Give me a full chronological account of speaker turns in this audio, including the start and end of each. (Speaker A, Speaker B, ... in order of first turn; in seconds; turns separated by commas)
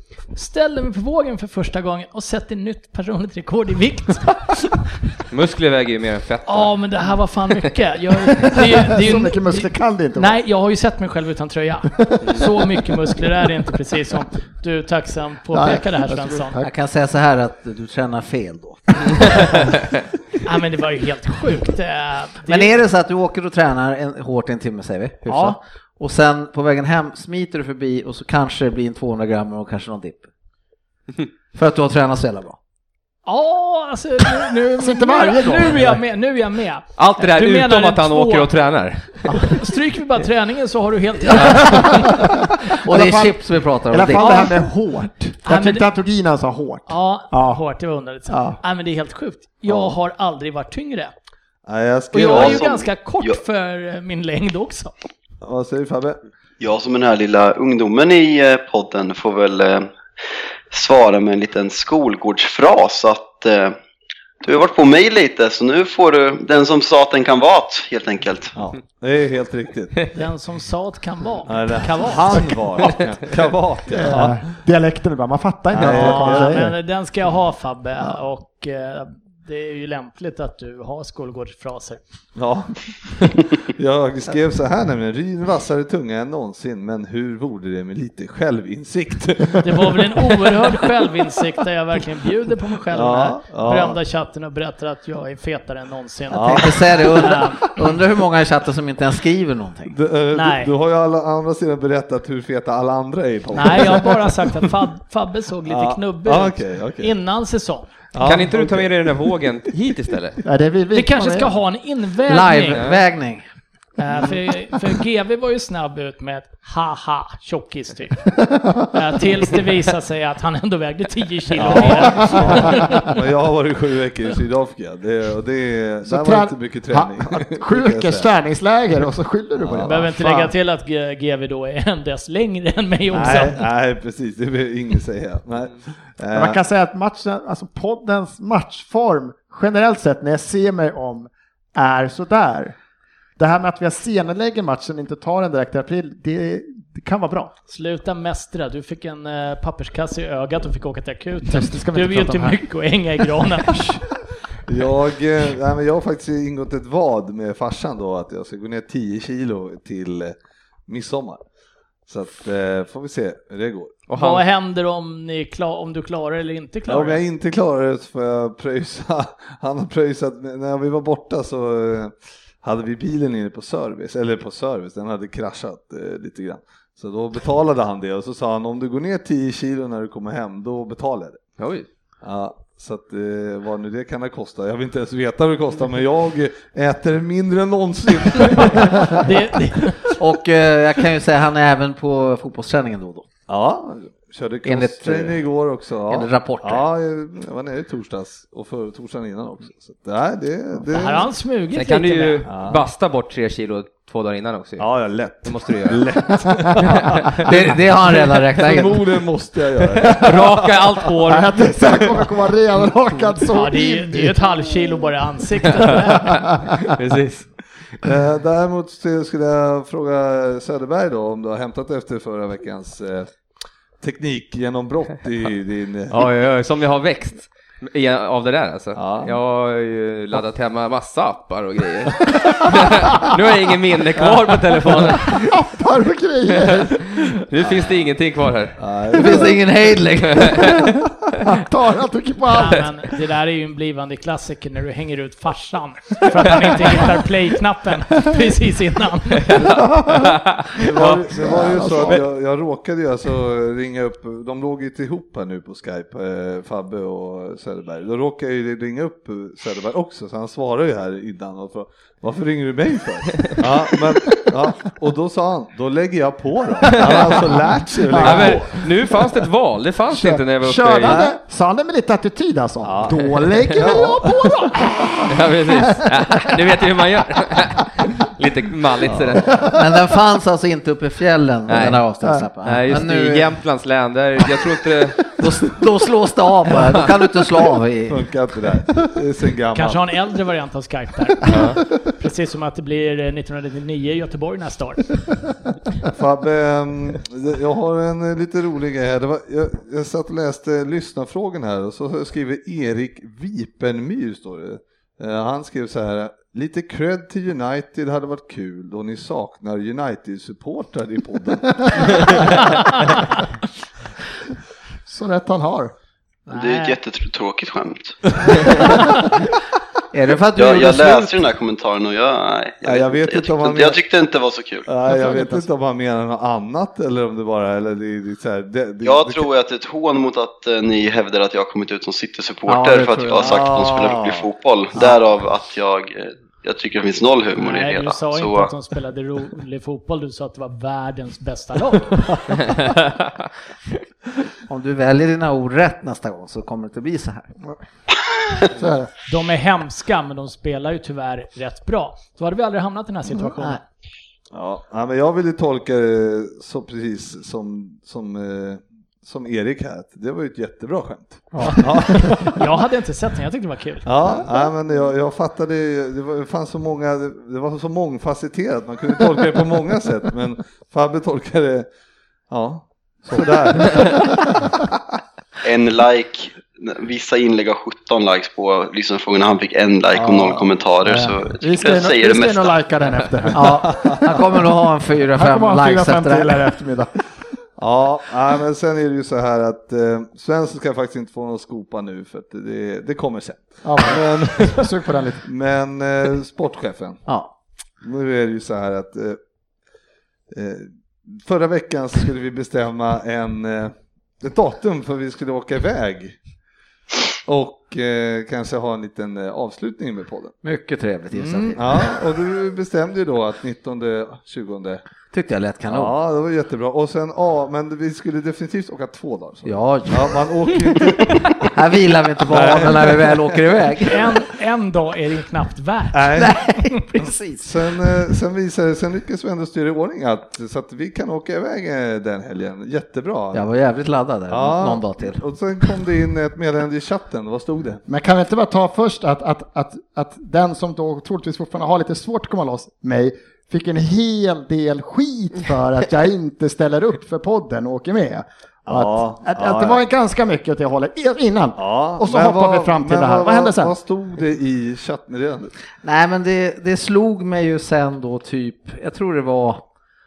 Speaker A: 0.3-4.8, Speaker B: 5.3-6.7, Speaker A: 6.5-16.6, Speaker C: 8.5-10.4, Speaker C: 12.0-12.5, Speaker C: 15.5-16.7, Speaker D: 16.6-19.7, Speaker A: 20.4-22.8, Speaker D: 22.4-30.3, Speaker A: 25.3-25.6, Speaker D: 31.5-32.6, Speaker A: 33.3-38.5, Speaker C: 34.8-36.0, Speaker B: 37.0-39.6, Speaker A: 39.5-42.2, Speaker C: 41.3-47.6, Speaker D: 42.8-44.5, Speaker A: 44.2-44.4, Speaker A: 45.5-45.9, Speaker A: 46.9-51.1, Speaker C: 48.3-48.6, Speaker E: 49.7-50.0, Speaker E: 51.6-52.6, Speaker A: 52.1-54.9, Speaker F: 52.1-53.4, Speaker E: 55.4-56.2, Speaker F: 56.6-59.9, Speaker F: 60.7-63.8, Speaker F: 64.4-68.5, Speaker E: 68.6-70.2, Speaker A: 70.1-72.6, Speaker E: 71.5-74.5, Speaker C: 73.9-76.7, Speaker E: 75.7-76.7, Speaker A: 75.8-82.0, Speaker E: 82.4-90.9, Speaker A: 89.6-97.7, Speaker E: 92.9-94.0, Speaker E: 96.3-96.9, Speaker D: 96.3-100.0, Speaker E: 99.9-104.6, Speaker A: 100.3-100.7, Speaker A: 103.5-107.9, Speaker E: 105.7-107.1, Speaker E: 108.1-109.0, Speaker B: 108.2-110.4, Speaker C: 110.4-111.5, Speaker A: 110.9-112.8, Speaker D: 112.3-113.5, Speaker B: 112.7-113.0, Speaker A: 114.0-123.1, Speaker C: 118.5-118.9, Speaker E: 121.6-128.3, Speaker C: 122.0-123.1, Speaker C: 126.0-130.5, Speaker E: 129.6-130.0, Speaker A: 129.8-133.6, Speaker E: 133.1-136.6, Speaker C: 136.3-142.8, Speaker C: 143.4-147.5, Speaker A: 147.7-154.0, Speaker C: 151.5-152.6, Speaker E: 154.7-160.4, Speaker E: 160.9-161.4, Speaker E: 162.1-164.0, Speaker B: 164.1-164.4, Speaker A: 164.1-167.2, Speaker E: 166.9-181.4, Speaker B: 181.6-181.9, Speaker E: 182.2-189.3, Speaker A: 189.1-190.0, Speaker D: 190.2-193.3, Speaker E: 193.5-201.3, Speaker D: 194.6-195.4, Speaker D: 196.1-196.9, Speaker A: 200.9-202.4, Speaker B: 201.7-204.9, Speaker E: 202.5-202.8, Speaker E: 204.8-211.1, Speaker B: 205.4-206.1, Speaker B: 206.8-207.4, Speaker D: 207.4-209.0, Speaker B: 210.0-212.2, Speaker C: 211.3-214.5, Speaker A: 213.5-216.5, Speaker B: 216.8-217.5, Speaker E: 218.0-223.3, Speaker E: 224.0-226.2, Speaker B: 226.1-235.6, Speaker E: 228.9-229.3, Speaker C: 235.5-237.1, Speaker B: 236.5-238.8, Speaker E: 238.8-239.6, Speaker D: 239.1-240.8, Speaker B: 240.2-240.9, Speaker C: 241.4-242.9, Speaker A: 242.5-249.5, Speaker B: 249.4-251.2, Speaker E: 249.7-268.9, Speaker C: 251.3-252.2, Speaker B: 263.4-263.6, Speaker B: 266.9-267.6, Speaker C: 268.1-268.7, Speaker B: 268.2-271.2, Speaker C: 270.1-276.5, Speaker E: 271.0-271.4, Speaker E: 272.8-274.3, Speaker B: 275.3-279.6, Speaker E: 279.1-279.6, Speaker C: 279.5-279.8, Speaker D: 279.7-283.5, Speaker B: 281.7-282.0, Speaker B: 282.6-285.4, Speaker D: 285.4-288.3, Speaker E: 288.1-290.0, Speaker A: 289.7-295.2, Speaker B: 291.5-291.8, Speaker E: 296.1-313.0, Speaker C: 315.1-315.9, Speaker A: 316.5-317.0, Speaker F: 316.5-318.2, Speaker E: 318.5-318.8, Speaker D: 320.1-321.4, Speaker F: 320.6-324.9, Speaker E: 322.8-324.0, Speaker E: 324.9-329.4, Speaker C: 325.1-325.7, Speaker F: 329.0-338.7, Speaker D: 332.7-334.1, Speaker E: 333.4-334.4, Speaker A: 337.6-342.3, Speaker D: 344.7-347.5, Speaker C: 348.6-349.1, Speaker A: 349.3-353.8, Speaker E: 354.5-362.6, Speaker C: 361.6-362.5, Speaker A: 362.4-364.1, Speaker E: 364.0-371.9, Speaker E: 372.5-374.8, Speaker C: 373.8-374.2, Speaker F: 375.6-382.8, Speaker E: 380.1-380.7, Speaker C: 381.6-384.3, Speaker D: 383.5-386.7, Speaker E: 383.8-384.2, Speaker C: 385.4-387.1, Speaker E: 387.8-397.2, Speaker C: 393.8-395.4, Speaker D: 397.3-397.5, Speaker E: 398.0-399.4, Speaker E: 400.5-406.4, Speaker E: 407.5-410.6, Speaker D: 410.6-412.2, Speaker E: 411.3-415.0, Speaker D: 415.3-416.1, Speaker E: 415.9-421.8, Speaker D: 419.6-424.2, Speaker E: 422.4-423.8, Speaker A: 424.1-426.3, Speaker E: 426.1-426.6, Speaker D: 426.3-428.1, Speaker E: 427.6-433.7, Speaker D: 433.5-435.4, Speaker E: 434.5-438.0, Speaker C: 438.1-453.9, Speaker E: 448.9-450.0, Speaker E: 451.8-455.7, Speaker D: 456.0-459.9